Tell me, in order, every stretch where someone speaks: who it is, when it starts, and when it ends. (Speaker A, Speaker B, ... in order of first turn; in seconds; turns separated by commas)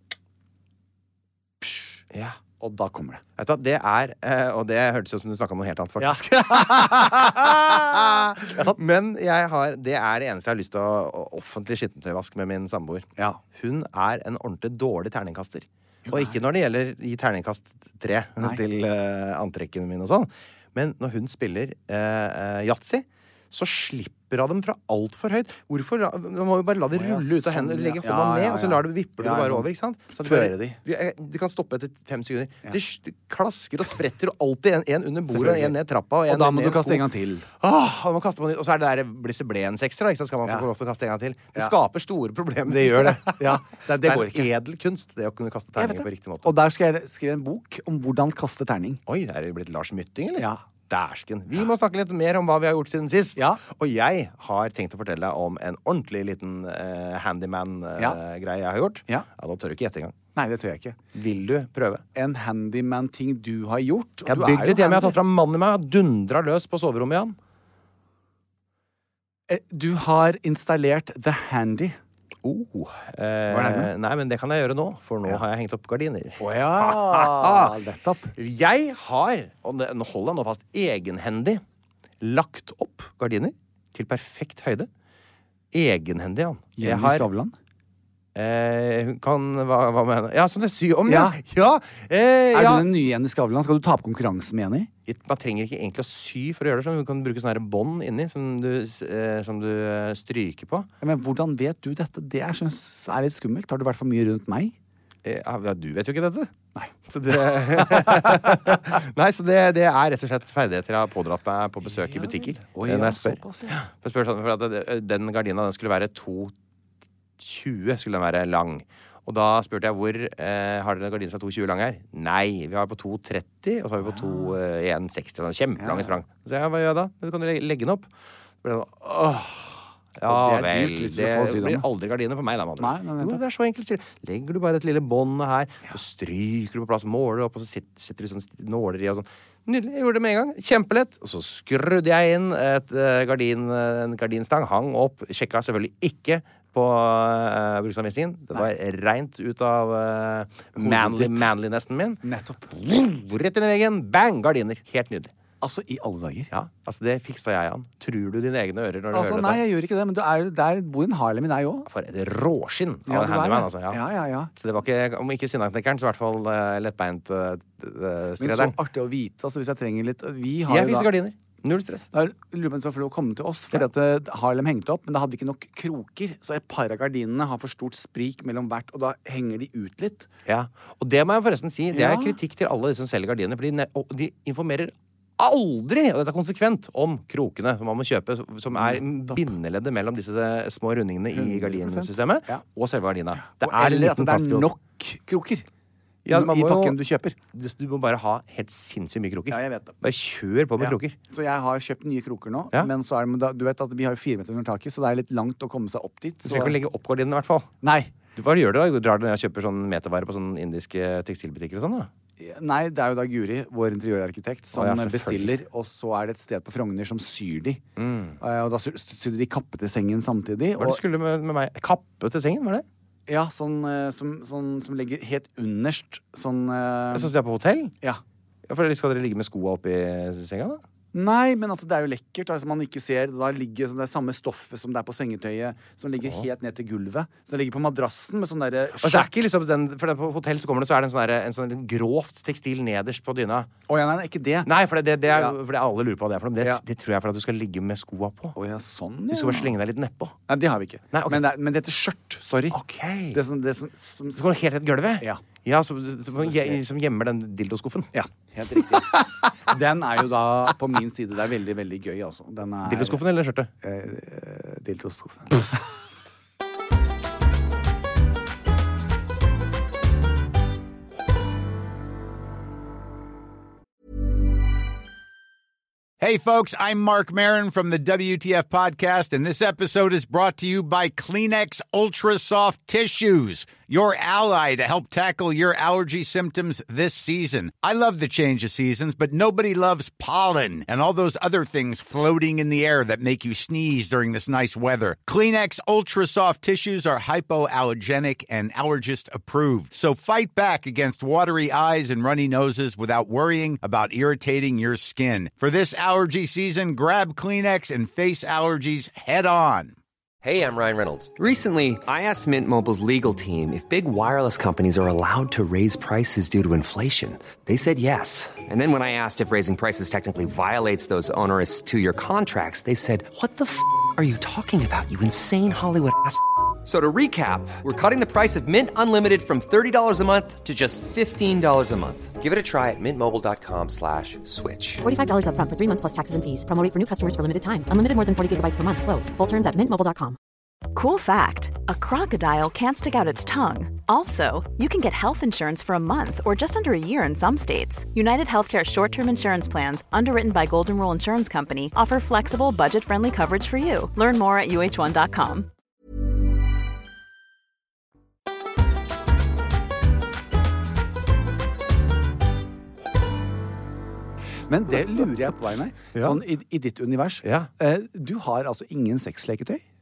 Speaker A: 2.1-2.4, Speaker B: 2.6-3.2, Speaker A: 3.4-37.0, Speaker B: 6.0-8.8, Speaker B: 16.1-16.4, Speaker B: 26.9-30.8, Speaker B: 35.3-35.8, Speaker B: 36.3-37.5, Speaker A: 37.6-46.5, Speaker B: 42.7-44.5, Speaker B: 45.8-49.0, Speaker A: 49.1-60.2, Speaker B: 50.4-50.6, Speaker B: 60.4-61.0, Speaker A: 61.1-62.0, Speaker B: 62.1-65.2, Speaker A: 64.3-67.4, Speaker B: 69.5-72.0, Speaker A: 72.4-77.8, Speaker B: 73.5-73.9, Speaker B: 76.4-78.3, Speaker A: 78.4-81.6, Speaker A: 82.2-84.9, Speaker A: 85.7-87.3, Speaker B: 86.8-87.6, Speaker A: 88.3-92.9, Speaker B: 91.1-91.4, Speaker B: 92.5-94.9, Speaker A: 95.1-100.9, Speaker B: 101.0-104.8, Speaker A: 105.2-106.5, Speaker A: 107.1-116.5, Speaker B: 107.4-108.8, Speaker B: 111.8-113.8, Speaker A: 117.4-128.1, Speaker B: 124.0-124.6, Speaker B: 125.8-126.2, Speaker A: 128.6-155.3, Speaker B: 130.2-131.9, Speaker B: 132.8-133.4, Speaker B: 150.8-151.5, Speaker B: 152.2-152.7, Speaker B: 155.6-156.5, Speaker A: 156.5-159.6, Speaker B: 159.1-161.9, Speaker A: 161.9-164.0, Speaker B: 163.1-164.5, Speaker A: 164.6-168.8, Speaker B: 168.4-171.1, Speaker A: 170.7-172.1, Speaker B: 172.1-180.3, Speaker A: 180.5-194.7, Speaker B: 181.9-182.4, Speaker B: 188.7-189.4, Speaker B: 191.3-192.6, Speaker B: 193.5-195.7, Speaker A: 196.2-197.0, Speaker B: 196.3-197.4, Speaker A: 197.5-201.2, Speaker B: 199.5-200.0, Speaker B: 200.8-206.8, Speaker A: 206.4-207.7, Speaker B: 207.8-208.2, Speaker A: 208.3-212.1, Speaker B: 212.4-217.8, Speaker A: 214.7-215.6, Speaker A: 218.0-218.4, Speaker B: 218.4-221.0, Speaker A: 220.8-222.8, Speaker B: 223.3-227.3, Speaker A: 227.1-227.9, Speaker A: 228.7-230.8, Speaker B: 231.1-239.3, Speaker A: 239.0-243.7, Speaker B: 243.9-244.7, Speaker A: 244.7-248.6, Speaker B: 245.3-245.6, Speaker B: 248.6-249.8, Speaker A: 249.3-250.4, Speaker B: 250.5-252.8, Speaker A: 251.1-251.4, Speaker A: 252.7-253.4, Speaker B: 253.3-254.6, Speaker A: 254.4-258.2, Speaker B: 255.2-255.4, Speaker B: 256.3-256.8, Speaker B: 258.1-263.2, Speaker A: 262.8-263.7, Speaker B: 263.8-265.8, Speaker C: 276.2-310.0, Speaker D: 310.4-335.0, Speaker E: 335.0-340.4, Speaker F: 340.9-355.7, Speaker B: 364.7-369.8, Speaker A: 366.1-366.4, Speaker A: 367.4-367.7